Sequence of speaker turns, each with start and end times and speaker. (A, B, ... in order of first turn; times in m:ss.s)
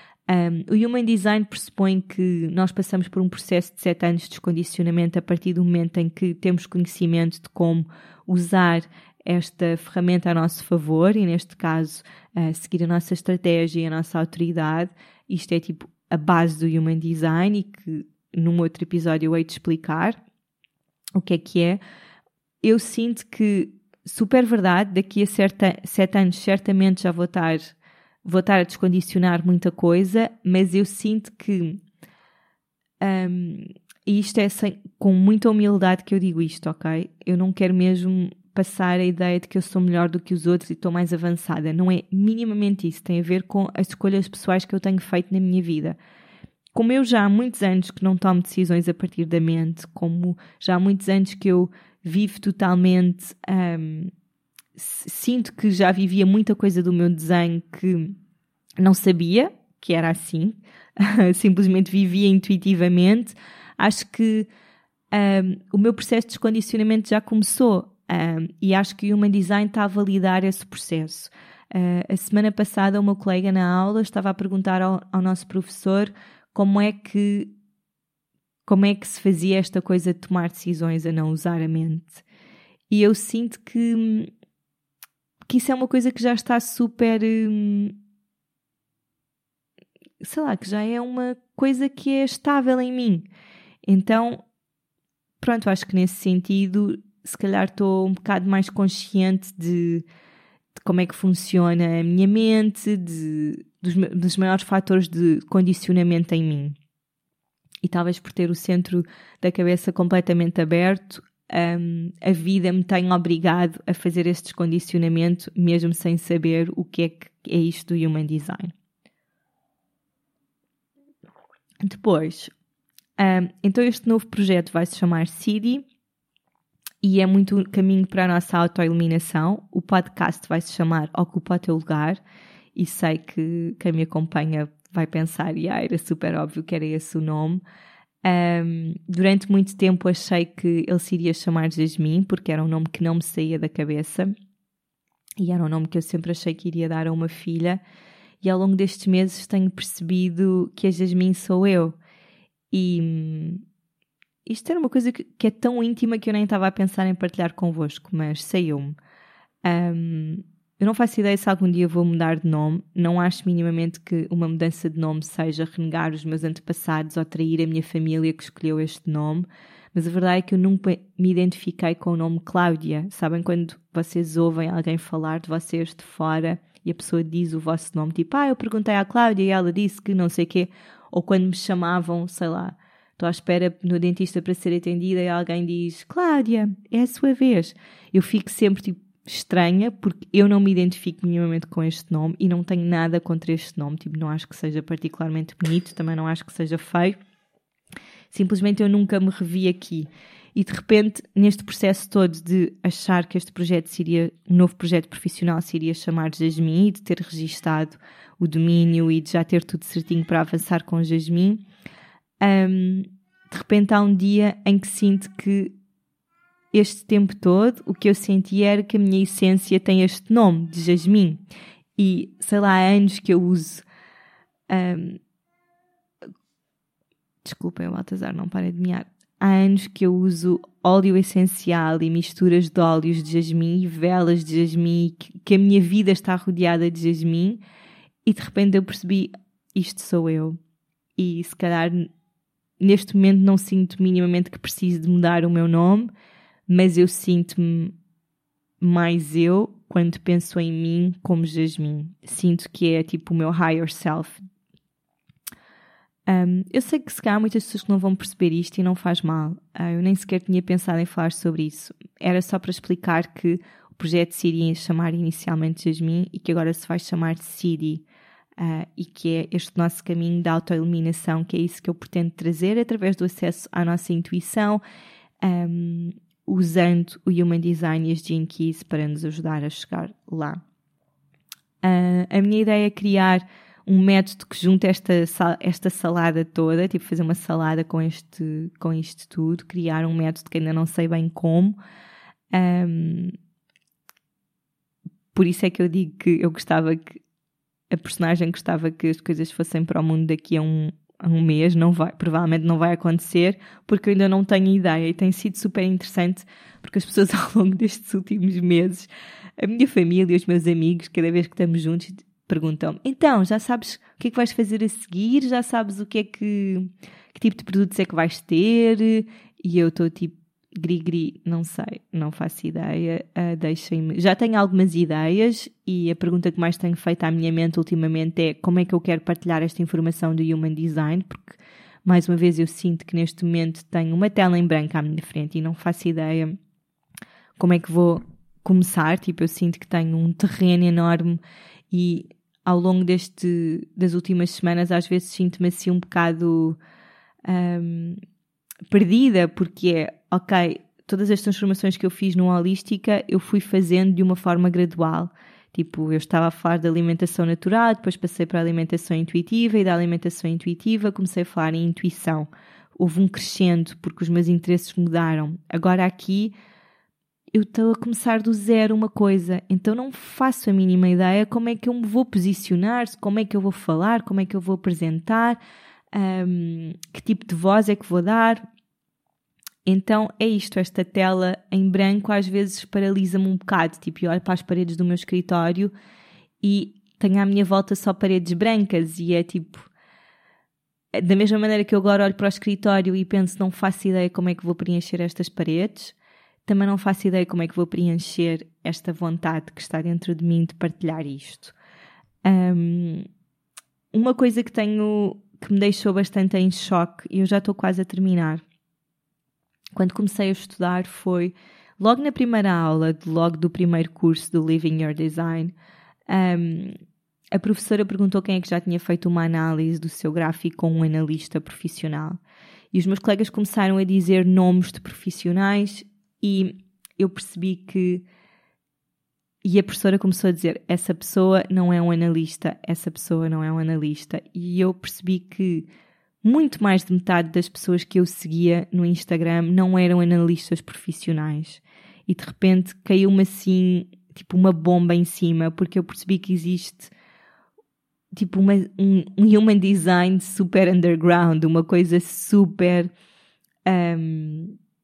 0:00.3-0:20.2 A
0:21.1-0:21.8 A
0:22.6-0:27.7 A
0:28.2-0:31.8 A
0:33.0-0:46.0 A
0:46.7-0:54.1 A
0:54.8-0:58.1 A
0:58.8-1:04.5 A
1:05.1-1:17.5 A
1:18.6-1:22.2 A
1:22.9-1:24.3 A
1:25.5-1:27.9 A
1:30.2-1:33.2 A
1:33.9-1:34.4 A
1:35.4-1:40.0 A
1:40.8-1:46.8 A
1:47.8-1:58.7 A
2:01.8-2:02.5 A
2:03.2-2:05.8 A
2:07.0-2:12.2 A
2:12.7-2:17.6 A
2:18.2-2:24.3 A
2:25.4-2:27.8 A
2:28.4-2:32.0 A
2:32.7-2:33.6 A
2:34.4-2:39.0 A
2:39.6-3:17.2 A
3:18.3-3:31.6 A
3:32.4-3:35.7 A
3:36.7-3:41.4 A
3:42.0-3:43.8 A
3:44.7-3:45.2 A
3:47.4-3:57.6 A
3:58.2-4:00.6 A
4:01.2-4:02.1 A
4:02.8-4:06.1 A
4:06.7-4:07.9 A
4:08.8-4:14.4 A
4:16.3-4:28.0 A
4:28.6-4:34.8 A
4:35.4-4:40.6 A
4:41.8-4:51.8 A
4:52.5-4:53.4 A
4:55.3-4:57.2 A
4:57.9-5:36.5 A
5:37.6-5:41.4 A
5:41.9-5:46.8 A
5:47.4-5:48.2 A
5:48.9-6:06.5 A
6:07.5-6:15.6 A
6:16.1-6:18.6 A
6:19.9-6:25.9 A
6:26.6-6:29.9 A
6:31.1-6:36.1 A
6:36.6-6:41.7 A
6:42.4-6:43.3 A
6:44.1-6:48.6 A
6:49.9-6:55.7 A
6:56.3-6:57.0 A
6:57.5-7:02.4 A
7:02.9-7:08.2 A
7:09.6-7:15.9 A
7:16.4-7:27.1 A
7:28.3-7:33.1 A
7:33.9-7:34.8 A